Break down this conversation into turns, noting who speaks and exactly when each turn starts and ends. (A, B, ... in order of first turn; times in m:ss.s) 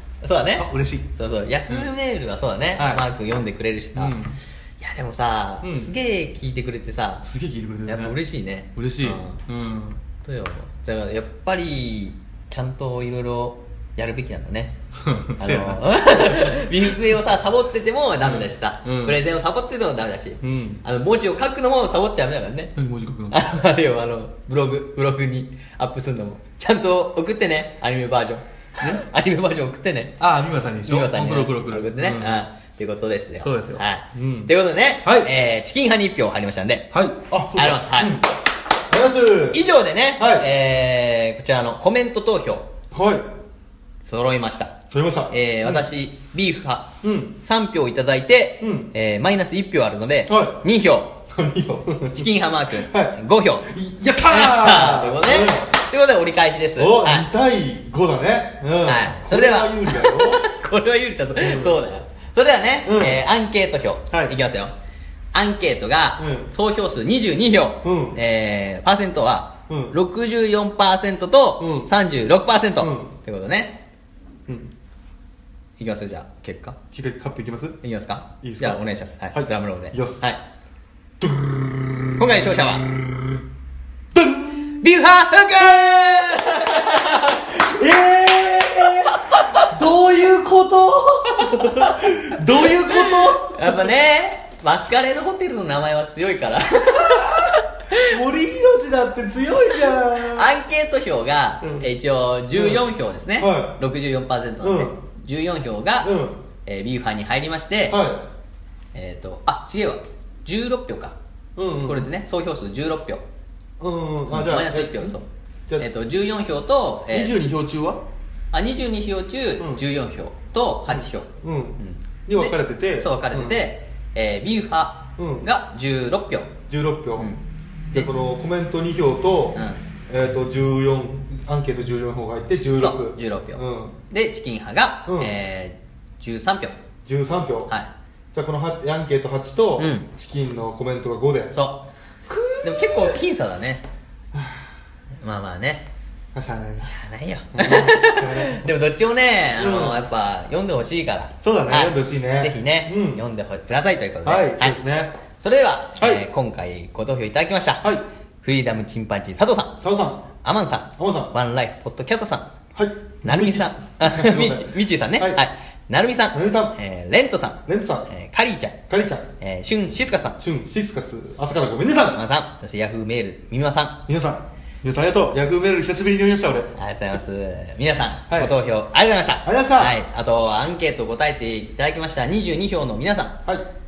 0:00.2-0:04.2 A
0:00.5-0:01.1 B
0:02.8-0:03.0 B
0:04.0-0:04.4 B
0:04.8-0:07.2 A
0:05.6-0:05.9 B
0:07.2-0:08.2 B
0:07.8-0:09.4 A
0:08.7-0:10.0 B
0:10.2-0:14.8 A
0:15.0-0:16.5 B
0:15.4-0:22.7 A
0:18.2-0:19.2 B
0:20.4-0:20.8 B
0:22.8-0:23.7 B
0:23.3-0:30.2 A
0:30.2-0:32.4 B
0:30.8-0:36.9 A
0:33.4-0:35.3 B
0:36.9-0:38.3 B
0:37.5-0:38.2 A
0:38.9-0:39.6 B
0:39.5-0:42.7 A
0:40.2-0:40.5 B
0:42.9-0:43.2 B
0:44.0-0:44.8 A
0:44.9-0:45.8 B
0:45.3-0:51.2 A
0:47.0-0:47.4 B
0:48.6-0:48.9 B
0:50.3-0:50.6 B
0:51.3-0:55.7 B
0:52.1-0:53.7 A
0:54.2-0:57.3 A
0:56.8-1:00.4 B
0:58.8-1:04.7 A
1:01.4-1:01.8 B
1:02.8-1:03.2 B
1:04.1-1:04.3 B
1:05.3-1:13.8 A
1:06.2-1:06.5 B
1:07.8-1:08.2 B
1:09.7-1:10.0 B
1:11.6-1:11.9 B
1:12.8-1:13.1 B
1:14.5-1:14.7 B
1:15.8-1:16.8 A
1:16.9-1:17.8 B
1:17.8-1:20.4 A
1:18.4-1:20.2 B
1:21.2-1:23.4 B
1:22.2-1:22.9 A
1:24.1-1:24.8 B
1:24.8-1:27.6 A
1:27.5-1:33.9 B
1:29.0-1:29.7 A
1:31.4-1:32.1 A
1:32.6-1:38.1 A
1:37.0-1:40.5 B
1:40.1-1:48.0 A
1:41.6-1:41.9 B
1:42.5-1:43.8 B
1:44.6-1:44.9 B
1:46.0-1:46.4 B
1:47.9-1:48.2 B
1:48.9-1:51.2 A
1:51.6-1:52.1 B
1:51.8-1:53.2 A
1:53.8-1:55.1 B
1:54.3-1:55.2 A
1:55.8-1:57.4 A
1:57.1-1:58.0 B
1:58.5-2:06.6 A
2:00.9-2:03.6 B
2:05.2-2:05.5 B
2:06.7-2:07.3 B
2:07.9-2:14.0 B
2:09.5-2:09.8 A
2:12.7-2:16.8 A
2:15.0-2:15.3 B
2:17.0-2:17.7 B
2:18.3-2:21.6 B
2:19.8-2:20.1 A
2:21.5-2:21.8 A
2:22.3-2:23.2 B
2:22.6-2:23.8 A
2:24.3-2:24.7 B
2:25.2-2:25.9 A
2:26.3-2:26.9 B
2:26.8-2:34.8 A
2:27.5-2:28.6 B
2:29.6-2:30.0 B
2:31.4-2:33.2 B
2:34.2-2:35.2 B
2:35.3-2:37.9 A
2:36.0-2:36.2 B
2:38.4-2:39.8 A
2:39.8-2:40.2 B
2:40.4-2:42.5 A
2:41.0-2:41.3 B
2:42.7-2:45.4 B
2:43.2-2:48.8 A
2:46.3-2:46.8 B
2:47.6-2:48.1 B
2:48.9-2:49.3 B
2:49.4-2:50.4 A
2:50.4-2:52.2 B
2:52.1-2:54.0 A
2:54.1-2:56.7 B
2:56.7-3:03.4 A
2:58.3-2:58.5 B
2:59.4-3:00.0 B